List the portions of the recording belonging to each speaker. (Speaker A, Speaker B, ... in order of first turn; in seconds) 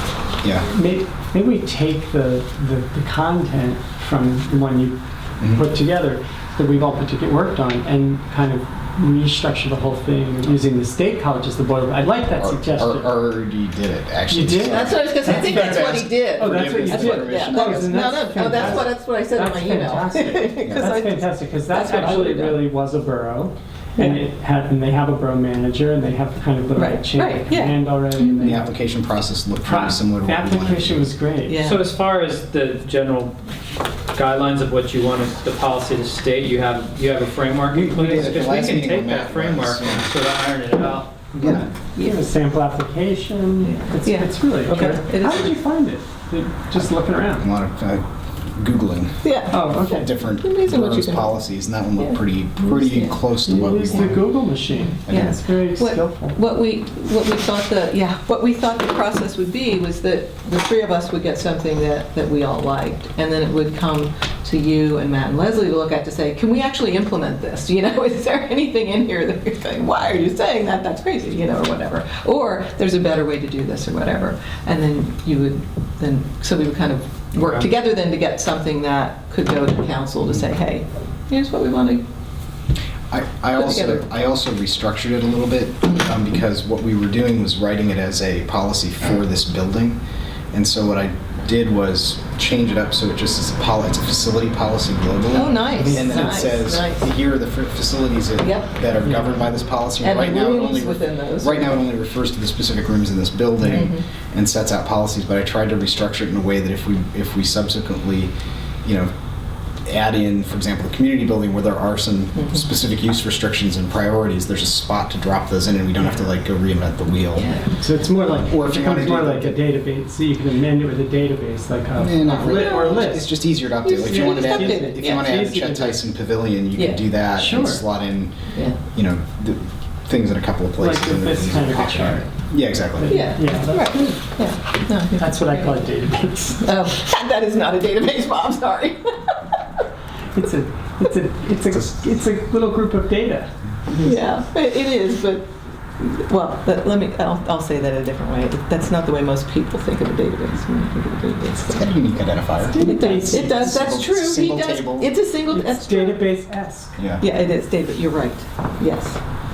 Speaker A: 0.4-0.7, 5.4-5.7, 12.4-18.8, 28.4-31.1, 37.7-40.1, 41.4-41.7, 47.4-54.2, 55.0-55.4, 83.1-90.0, 90.5-108.3, 108.8-109.1, 109.8-117.6, 118.3-119.6, 122.0-128.3, 128.9-133.2, 151.7-155.1, 157.0-157.2
Speaker B: 0.6-13.2, 14.3-28.7, 29.6-31.6, 42.0-47.5, 49.5-50.1, 53.4-56.4, 95.7-96.5, 99.0-99.4, 117.7-123.3, 124.0-126.0, 127.4-127.8, 130.8-132.3, 133.0-134.2, 135.2-136.7, 140.3-143.5, 152.6-153.8, 155.5-157.0
Speaker C: 14.6-22.6, 24.0-24.2, 26.7-28.5, 31.5-31.8, 43.6-45.5, 49.2-51.4, 52.0-53.2, 54.7-82.0, 83.6-84.0, 95.3-97.1, 98.4-98.7, 100.0-101.8, 103.7-104.0, 117.4-117.7, 122.2-123.1, 123.8-125.3, 128.5-128.8, 133.1-135.9, 136.6-139.1, 144.0-151.9, 152.8-156.2, 157.2-159.2
Speaker D: 31.6-33.4, 34.1-41.7, 44.7-45.0